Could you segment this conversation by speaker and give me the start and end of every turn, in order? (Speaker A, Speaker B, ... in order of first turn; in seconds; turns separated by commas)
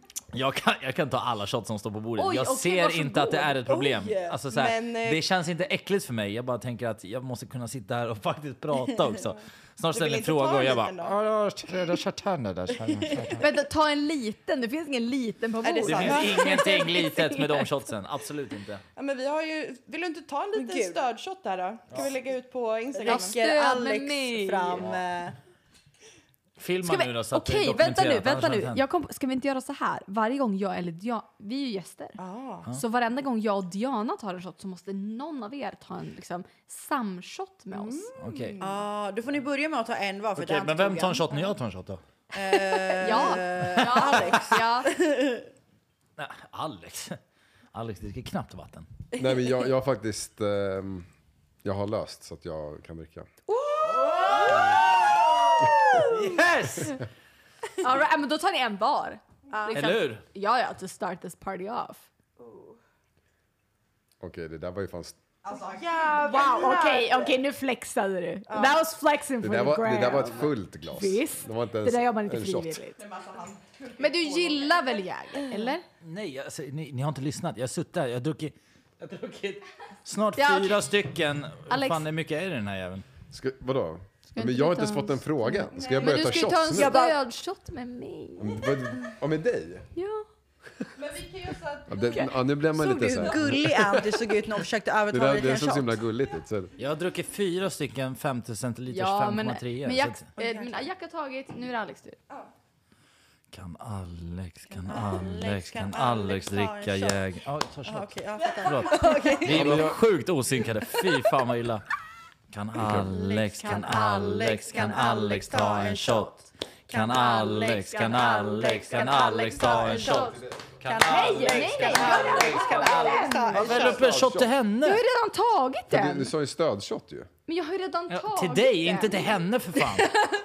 Speaker A: 0.3-13.5, Speaker B: 2.2-3.6, Speaker C: 3.6-4.4, Speaker D: 4.5-5.2, Speaker D: 9.9-11.1, Speaker B: 13.4-17.7, Speaker D: 15.6-16.6, Speaker A: 15.8-18.8, Speaker D: 18.9-23.4, Speaker C: 20.6-21.0, Speaker C: 22.9-25.4, Speaker B: 23.0-24.9, Speaker A: 26.6-28.8, Speaker B: 26.8-32.2, Speaker D: 32.2-32.6, Speaker B: 32.7-38.1, Speaker D: 37.7-38.8, Speaker A: 38.2-38.6, Speaker C: 38.6-41.4, Speaker A: 40.4-42.0, Speaker C: 42.3-45.5, Speaker B: 42.7-44.9, Speaker A: 46.2-47.2, Speaker A: 47.7-48.9, Speaker E: 49.2-51.1, Speaker C: 49.2-49.5, Speaker E: 51.6-53.3, Speaker B: 53.7-54.6, Speaker A: 53.8-55.4, Speaker C: 54.2-54.8, Speaker C: 55.6-56.4, Speaker A: 56.0-57.0, Speaker B: 57.7-62.1, Speaker C: 59.5-59.8, Speaker A: 59.7-60.2, Speaker C: 62.4-62.8, Speaker E: 64.2-65.2, Speaker D: 65.4-66.3, Speaker C: 65.6-67.3, Speaker B: 66.2-73.0, Speaker C: 68.5-68.8, Speaker E: 69.4-72.8, Speaker D: 73.0-75.0, Speaker B: 74.0-75.8, Speaker A: 76.0-83.0, Speaker B: 80.3-80.8, Speaker B: 81.7-82.0, Speaker E: 83.3-87.0, Speaker B: 84.3-89.0, Speaker D: 85.7-86.2, Speaker C: 86.7-87.1, Speaker E: 88.4-89.8, Speaker B: 90.0-90.2, Speaker D: 90.9-92.3, Speaker E: 91.9-94.2, Speaker C: 92.7-96.0, Speaker E: 95.1-96.7, Speaker A: 96.8-100.3, Speaker B: 98.9-102.2, Speaker C: 100.4-100.8, Speaker A: 103.5-111.8, Speaker C: 104.7-107.2, Speaker C: 107.8-109.9, Speaker D: 108.7-109.2, Speaker E: 109.5-110.0, Speaker A: 112.5-116.3, Speaker C: 112.9-124.1, Speaker B: 113.6-114.5, Speaker A: 116.9-125.0, Speaker B: 117.1-120.3, Speaker E: 120.0-120.8, Speaker B: 121.0-123.8, Speaker E: 123.5-124.5, Speaker B: 124.8-126.3, Speaker E: 125.9-127.3, Speaker B: 127.5-129.3, Speaker A: 128.1-130.1